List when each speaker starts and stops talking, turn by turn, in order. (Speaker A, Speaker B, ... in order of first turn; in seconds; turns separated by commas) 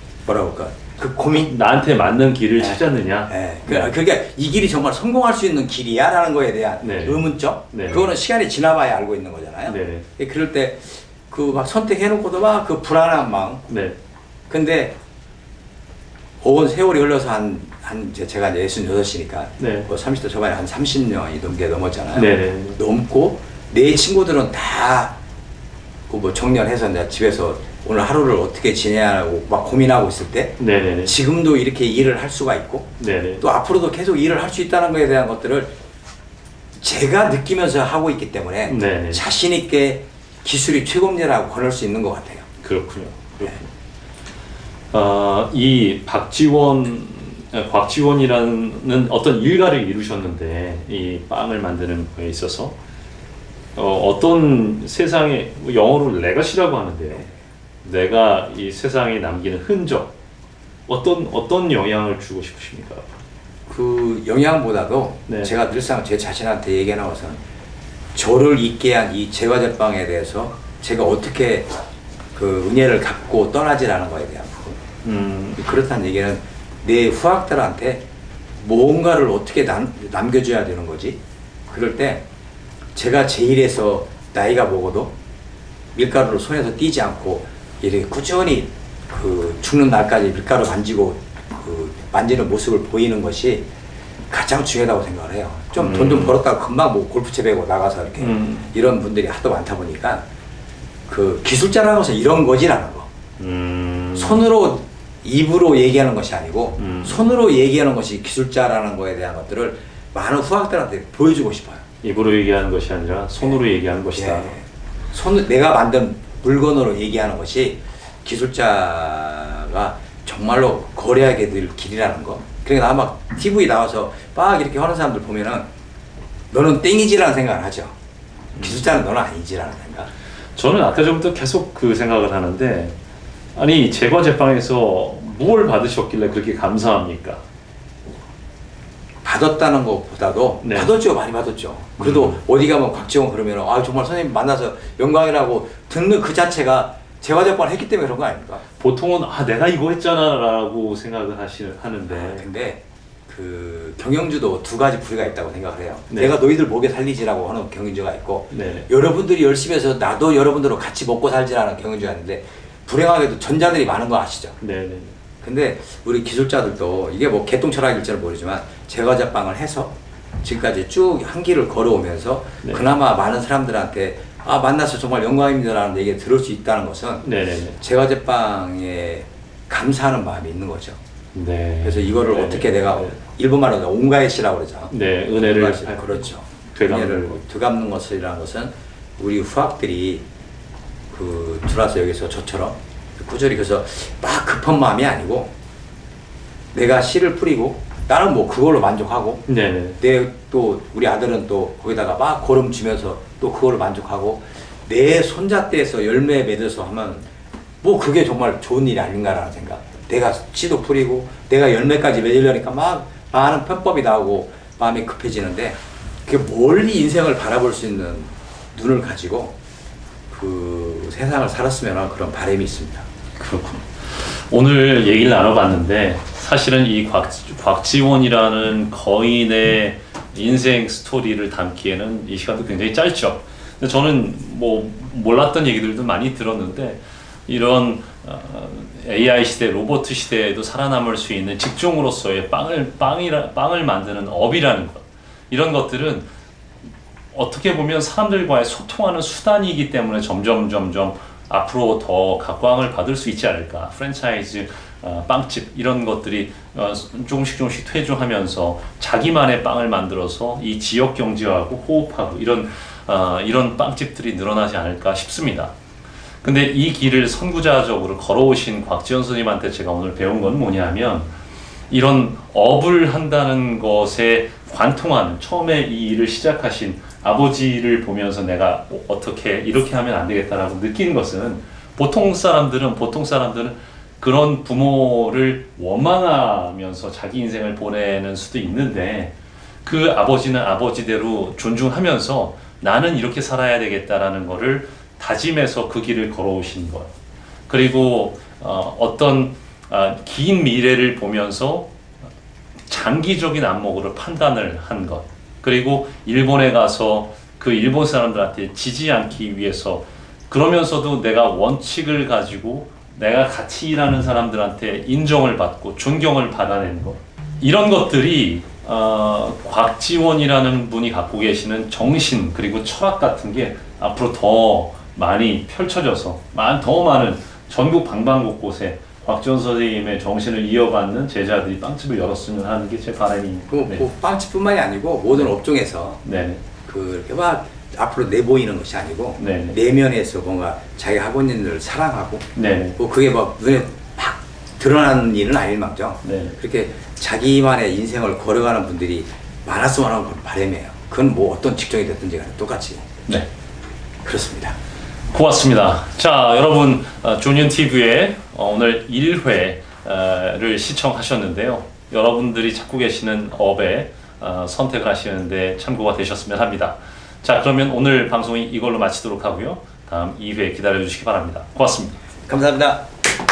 Speaker A: 0.3-1.5, Speaker B: 1.4-3.9, Speaker A: 2.6-13.7, Speaker B: 6.8-8.1, Speaker B: 9.7-10.1, Speaker B: 13.7-14.0, Speaker A: 14.5-14.9, Speaker A: 16.4-25.2, Speaker B: 19.6-19.9, Speaker B: 22.1-22.8, Speaker A: 26.1-35.7, Speaker B: 30.6-31.2, Speaker B: 33.0-33.4, Speaker A: 36.8-42.5, Speaker B: 38.7-39.2, Speaker B: 42.6-43.6, Speaker B: 44.9-52.8, Speaker B: 53.8-57.3, Speaker B: 57.8-60.1, Speaker B: 60.9-63.1, Speaker A: 63.7-67.4, Speaker A: 68.2-71.7, Speaker A: 72.3-74.8, Speaker B: 75.0-75.6, Speaker A: 75.6-78.0, Speaker A: 78.6-81.2, Speaker A: 81.7-82.2, Speaker A: 83.0-85.1, Speaker A: 86.0-93.7, Speaker A: 94.3-100.2, Speaker B: 95.8-96.4, Speaker B: 98.2-98.7, Speaker A: 101.1-103.1, Speaker B: 103.4-104.5, Speaker A: 104.2-111.8, Speaker B: 106.8-107.2, Speaker B: 112.0-114.5, Speaker A: 114.2-125.7, Speaker A: 126.5-127.9, Speaker A: 128.6-130.1, Speaker B: 130.6-132.9, Speaker B: 133.6-137.4, Speaker A: 139.2-148.6, Speaker B: 140.6-140.9, Speaker B: 142.0-142.4, Speaker B: 148.8-152.5, Speaker A: 152.1-164.6, Speaker B: 158.5-158.9, Speaker B: 164.6-165.2, Speaker A: 165.4-177.3, Speaker B: 177.2-177.8, Speaker A: 177.8-181.0, Speaker B: 181.3-183.2, Speaker A: 181.8-190.2, Speaker B: 184.9-187.4, Speaker A: 191.1-195.5, Speaker A: 196.7-199.5, Speaker B: 199.5-200.0, Speaker A: 200.0-207.3, Speaker A: 207.8-219.5, Speaker A: 220.3-223.1, Speaker B: 223.4-246.3, Speaker B: 247.3-265.7, Speaker B: 266.4-271.3, Speaker B: 271.9-297.1, Speaker B: 297.7-301.9, Speaker B: 302.9-334.0, Speaker A: 333.7-336.2, Speaker B: 336.2-336.6, Speaker A: 336.9-353.1, Speaker B: 339.4-339.8, Speaker B: 342.6-343.0, Speaker B: 346.2-346.6, Speaker A: 354.2-354.8, Speaker B: 355.3-372.2, Speaker A: 372.5-373.1